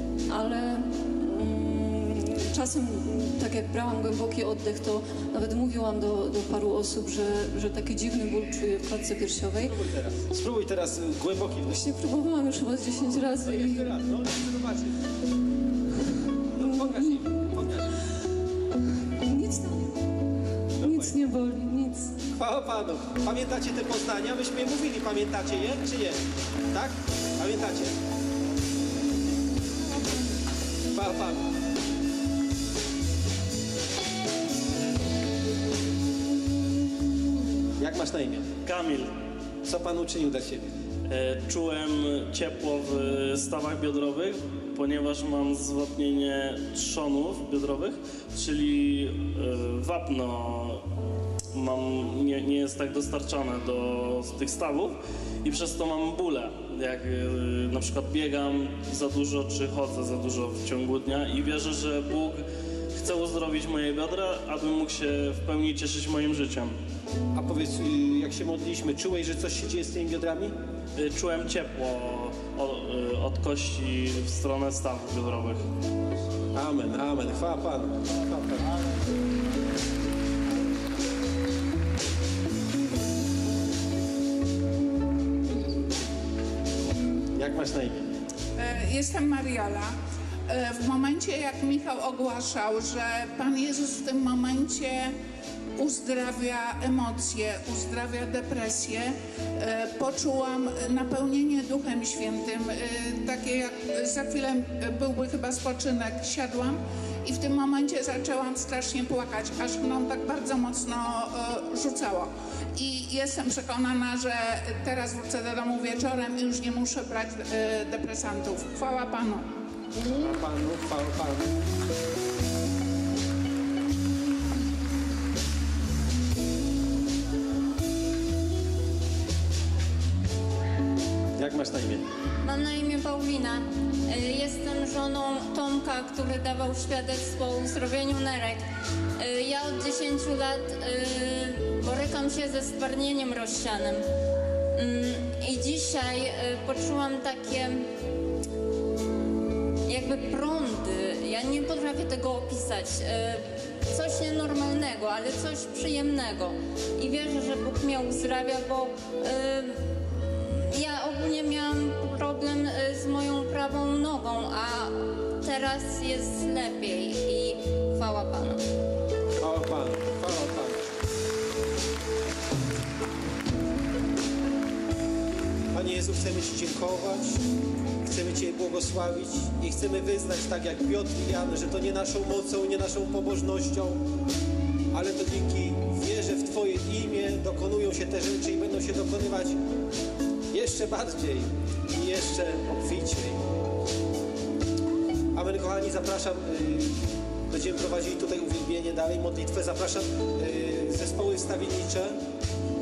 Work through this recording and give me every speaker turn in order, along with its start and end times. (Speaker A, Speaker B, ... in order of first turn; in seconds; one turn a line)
Speaker A: 0.3-9.7
Speaker B: 9.6-11.8
Speaker A: 11.7-13.9
Speaker B: 13.4-14.9
Speaker B: 16.5-17.9
Speaker A: 16.6-17.3
Speaker A: 19.2-20.0
Speaker A: 20.8-22.1
Speaker B: 20.8-21.1
Speaker B: 22.4-26.2
Speaker B: 26.7-27.9
Speaker B: 30.9-31.4
Speaker B: 37.8-38.5
Speaker C: 38.6-39.1
Speaker B: 39.6-40.7
Speaker C: 41.1-50.8
Speaker C: 51.5-66.8
Speaker B: 67.3-70.5
Speaker C: 71.0-75.6
Speaker B: 76.5-78.6
Speaker B: 87.3-88.1
Speaker D: 88.6-89.9
Speaker D: 90.5-95.1
Speaker D: 95.8-119.5
Speaker B: 119.9-121.5
Speaker B: 131.4-132.0
Speaker E: 132.4-138.6
Speaker E: 139.2-144.0
Speaker E: 144.8-147.8
Speaker E: 149.9-168.6
Speaker B: 169.4-170.8
Speaker B: 175.7-177.4
Speaker B: 178.0-184.0
Speaker B: 184.9-189.6
Speaker B: 190.5-193.4
Speaker B: 195.3-196.9
Speaker B: 197.5-202.2